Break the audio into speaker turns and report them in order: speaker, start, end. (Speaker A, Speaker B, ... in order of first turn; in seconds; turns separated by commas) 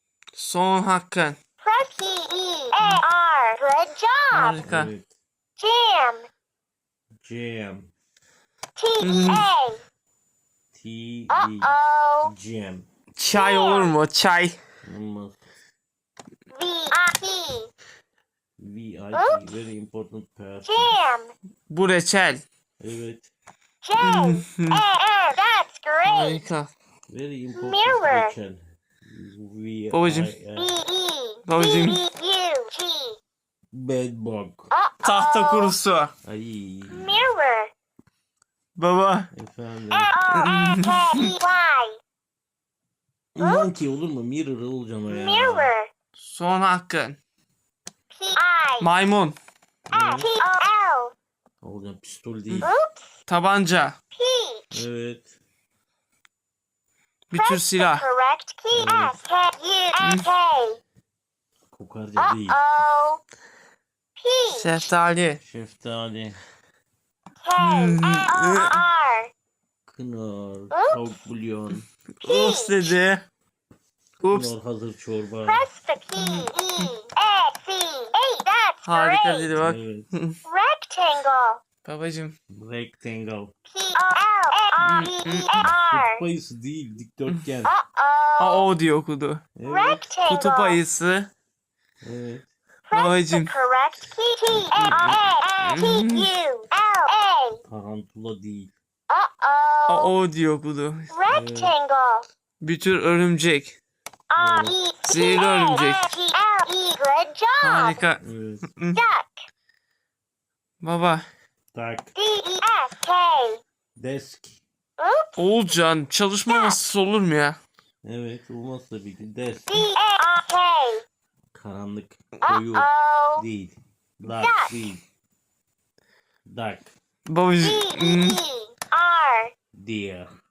Speaker A: 0.4-1.4, Speaker B: 1.6-4.6, Speaker A: 2.8-3.0, Speaker A: 4.3-4.9, Speaker C: 4.6-5.1, Speaker B: 5.6-6.3, Speaker C: 7.2-7.9, Speaker B: 8.8-9.8, Speaker A: 9.0-9.5, Speaker C: 10.7-12.9, Speaker B: 11.3-12.3, Speaker A: 13.2-14.6, Speaker B: 13.3-13.9, Speaker C: 14.8-15.4, Speaker B: 16.5-17.7, Speaker C: 18.6-21.0, Speaker B: 19.1-19.4, Speaker B: 20.6-21.3, Speaker A: 21.7-22.4, Speaker C: 22.8-23.3, Speaker B: 23.8-26.4, Speaker A: 24.0-24.8, Speaker A: 26.0-26.7, Speaker C: 27.1-30.8, Speaker B: 27.5-28.3, Speaker A: 29.9-30.3, Speaker B: 30.6-33.2, Speaker A: 31.5-32.0, Speaker C: 33.7-34.7, Speaker B: 34.7-35.8, Speaker A: 35.0-36.1, Speaker C: 36.2-37.2, Speaker B: 36.9-37.7, Speaker A: 38.8-39.3, Speaker C: 39.3-40.2, Speaker B: 39.9-42.0, Speaker A: 40.3-41.4, Speaker C: 43.4-45.7, Speaker B: 43.4-43.6, Speaker B: 45.1-45.9, Speaker A: 46.2-47.2, Speaker B: 48.1-48.9, Speaker A: 48.8-49.4, Speaker C: 49.9-50.3, Speaker B: 49.9-51.1, Speaker C: 51.6-52.7, Speaker B: 52.6-53.1, Speaker A: 53.3-54.0, Speaker B: 54.1-54.8, Speaker C: 54.7-55.3, Speaker A: 57.3-58.1, Speaker B: 57.4-60.8, Speaker C: 58.7-59.2, Speaker A: 60.0-60.3, Speaker C: 61.7-62.6, Speaker B: 62.2-63.2, Speaker B: 64.2-64.9, Speaker A: 64.5-65.4, Speaker C: 65.4-66.4, Speaker B: 67.4-69.3, Speaker A: 67.6-68.8, Speaker C: 69.9-71.8, Speaker B: 70.7-71.0, Speaker A: 72.2-73.2, Speaker B: 72.2-73.0, Speaker A: 74.2-74.5, Speaker C: 74.3-75.7, Speaker B: 75.5-79.5, Speaker A: 76.2-76.9, Speaker A: 78.8-80.4, Speaker C: 79.6-80.1, Speaker B: 80.5-81.6, Speaker A: 81.8-82.3, Speaker C: 82.5-83.5, Speaker B: 83.7-86.2, Speaker A: 84.8-85.7, Speaker C: 85.6-87.8, Speaker B: 87.7-88.7, Speaker A: 88.4-89.4, Speaker C: 89.6-90.1, Speaker B: 89.7-90.8, Speaker A: 90.2-91.3, Speaker C: 92.0-92.5, Speaker B: 92.9-97.6, Speaker A: 92.9-93.5, Speaker A: 94.6-96.3, Speaker C: 97.7-98.7, Speaker B: 99.1-100.1, Speaker A: 99.9-101.1, Speaker B: 101.1-102.3, Speaker C: 101.3-101.8, Speaker A: 102.6-103.8, Speaker B: 104.3-108.0, Speaker C: 104.3-104.8, Speaker A: 105.0-106.2, Speaker A: 107.6-108.2, Speaker C: 108.2-108.7, Speaker A: 108.8-109.0, Speaker B: 108.9-109.5, Speaker A: 110.8-111.2, Speaker C: 111.7-112.1, Speaker B: 112.2-113.6, Speaker C: 114.0-114.6, Speaker B: 115.0-115.3, Speaker A: 115.4-117.6, Speaker B: 116.5-116.8, Speaker C: 118.0-119.9, Speaker B: 119.7-121.0, Speaker C: 121.5-125.0, Speaker B: 122.4-123.5, Speaker B: 124.3-124.7, Speaker C: 126.5-126.9, Speaker A: 127.3-128.4, Speaker B: 127.6-129.5, Speaker C: 129.7-130.3